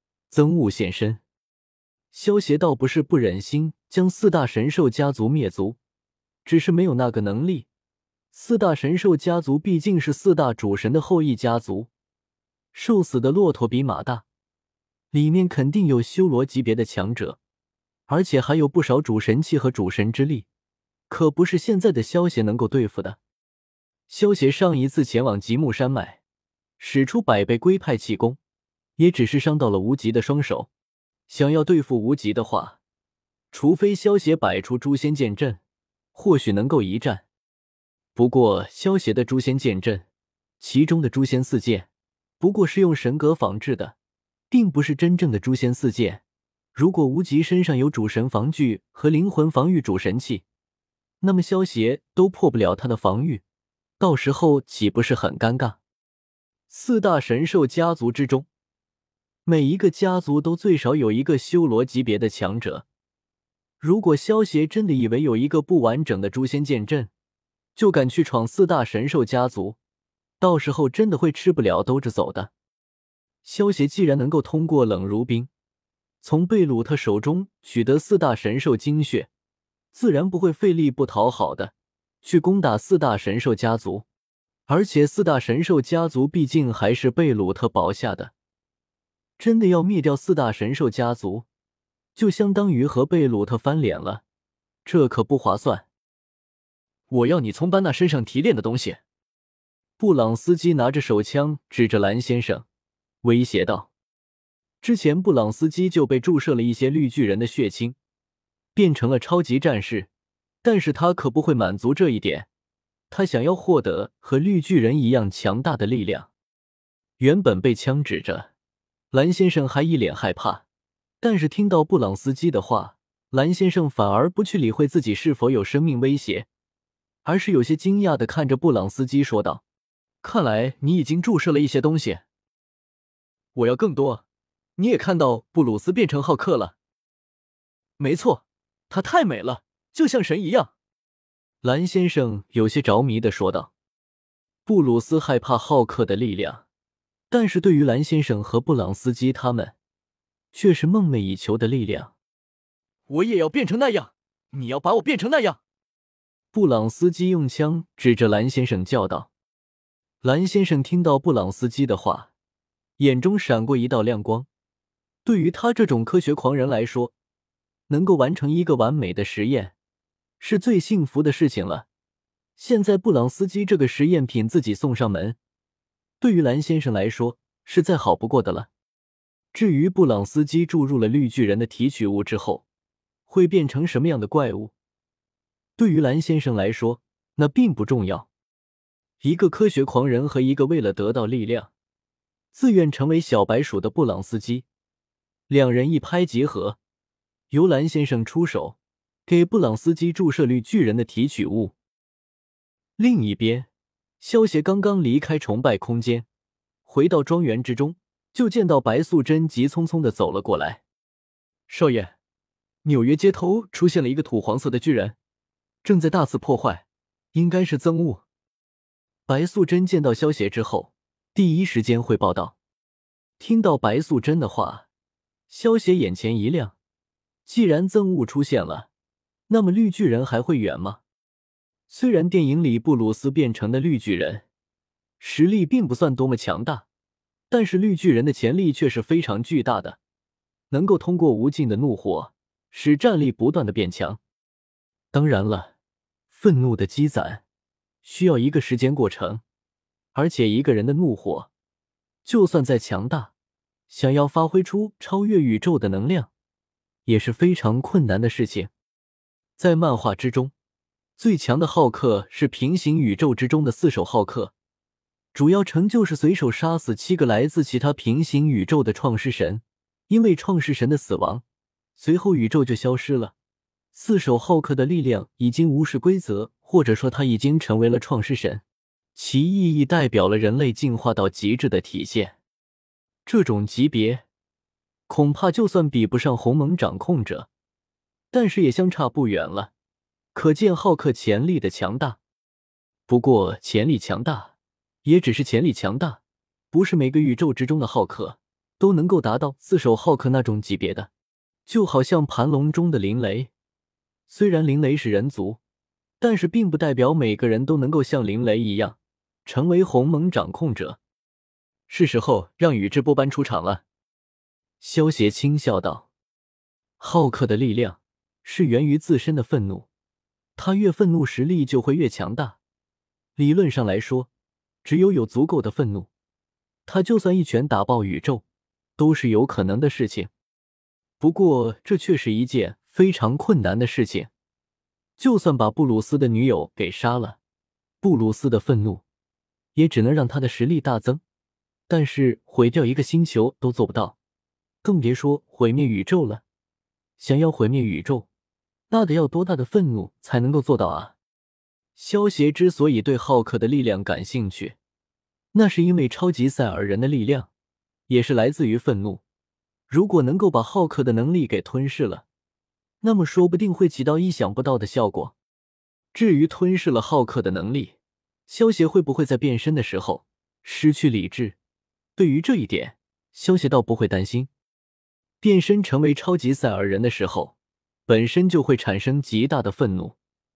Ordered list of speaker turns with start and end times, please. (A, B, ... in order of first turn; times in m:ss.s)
0:00.3-0:01.2 A
0:02.1-0:05.8 A
0:06.4-0:07.7 A
0:08.3-0:11.9 A
0:12.7-0:14.2 A
0:15.1-0:17.4 A
0:18.1-0:20.5 A
0:21.1-0:23.2 A
0:24.1-0:26.2 A
0:26.8-0:28.4 A
0:29.0-0:30.7 A
0:31.3-0:32.8 A
0:33.5-0:35.6 A
0:36.2-0:37.3 A
0:38.2-0:40.1 A
0:40.6-0:41.9 A
0:42.4-0:44.0 A
0:44.5-0:46.2 A
0:46.8-0:50.4 A
0:51.2-0:53.4 A
0:54.0-0:55.8 A
0:56.7-0:58.5 A
0:59.5-1:02.8 A
1:03.8-1:07.1 A
1:07.8-1:09.8 A
1:10.4-1:12.5 A
1:13.4-1:15.5 A
1:16.2-1:19.3 A
1:19.9-1:24.1 A
1:24.7-1:28.3 A
1:29.4-1:31.5 A
1:32.2-1:34.2 A
1:34.8-1:35.9 A
1:37.1-1:39.0 A
1:40.0-1:42.6 A
1:43.2-1:43.9 A
1:44.8-1:48.0 A
1:48.8-1:50.1 A
1:50.6-1:52.5 A
1:53.1-1:56.3 A
1:57.2-1:58.5 A
1:59.1-2:00.6 A
2:01.2-2:06.5 A
2:07.2-2:09.6 A
2:10.2-2:12.2 A
2:13.6-2:14.2 A
2:14.8-2:16.8 A
2:18.0-2:20.7 A
2:21.6-2:23.7 A
2:24.7-2:26.6 A
2:27.3-2:29.8 A
2:30.5-2:32.1 A
2:33.1-2:35.6 A
2:36.5-2:39.3 A
2:40.2-2:42.3 A
2:43.0-2:44.5 A
2:45.2-2:47.1 A
2:47.9-2:49.8 A
2:50.4-2:51.9 A
2:52.6-2:55.4 A
2:56.2-2:58.7 A
2:59.5-3:02.6 A
3:03.3-3:04.7 A
3:05.8-3:08.3 A
3:09.2-3:11.7 A
3:12.5-3:14.6 A
3:15.5-3:16.8 A
3:17.5-3:21.8 A
3:23.0-3:23.7 A
3:24.2-3:26.3 A
3:26.9-3:30.8 A
3:31.7-3:32.2 A
3:32.8-3:35.2 A
3:35.8-3:38.2 A
3:39.3-3:42.6 A
3:43.4-3:44.9 A
3:45.5-3:46.8 A
3:47.4-3:48.9 A
3:49.5-3:51.0 A
3:51.9-3:54.4 A
3:55.2-3:56.9 A
3:57.5-4:00.0 A
4:00.7-4:04.2 A
4:05.1-4:05.7 A
4:06.3-4:07.4 A
4:08.0-4:09.4 A
4:10.2-4:11.5 A
4:12.2-4:13.3 A
4:13.9-4:16.3 A
4:17.1-4:18.7 A
4:19.6-4:20.5 A
4:21.2-4:24.5 A
4:25.3-4:31.4 A
4:32.0-4:33.3 A
4:33.9-4:38.6 A
4:39.2-4:42.4 A
4:43.3-4:44.2 A
4:45.1-4:47.5 A
4:48.3-4:49.7 A
4:50.3-4:52.2 A
4:53.1-4:56.2 A
4:56.7-5:01.1 A
5:01.7-5:03.5 A
5:04.3-5:05.6 A
5:06.2-5:11.0 A
5:11.9-5:13.8 A
5:14.8-5:16.1 A
5:17.0-5:19.9 A
5:20.6-5:22.6 A
5:23.4-5:24.3 A
5:24.8-5:26.1 A
5:26.9-5:28.4 A
5:29.0-5:30.3 A
5:31.2-5:34.3 A
5:35.2-5:37.4 A
5:38.0-5:39.0 A
5:39.8-5:41.2 A
5:41.9-5:44.2 A
5:44.8-5:46.4 A
5:47.2-5:48.3 A
5:48.9-5:51.2 A
5:52.0-5:54.8 A
5:55.5-5:57.5 A
5:58.1-5:59.2 A
5:59.9-6:02.2 A
6:03.0-6:05.4 A
6:06.1-6:08.0 A
6:08.5-6:11.6 A
6:12.2-6:14.5 A
6:15.4-6:17.6 A
6:18.1-6:20.2 A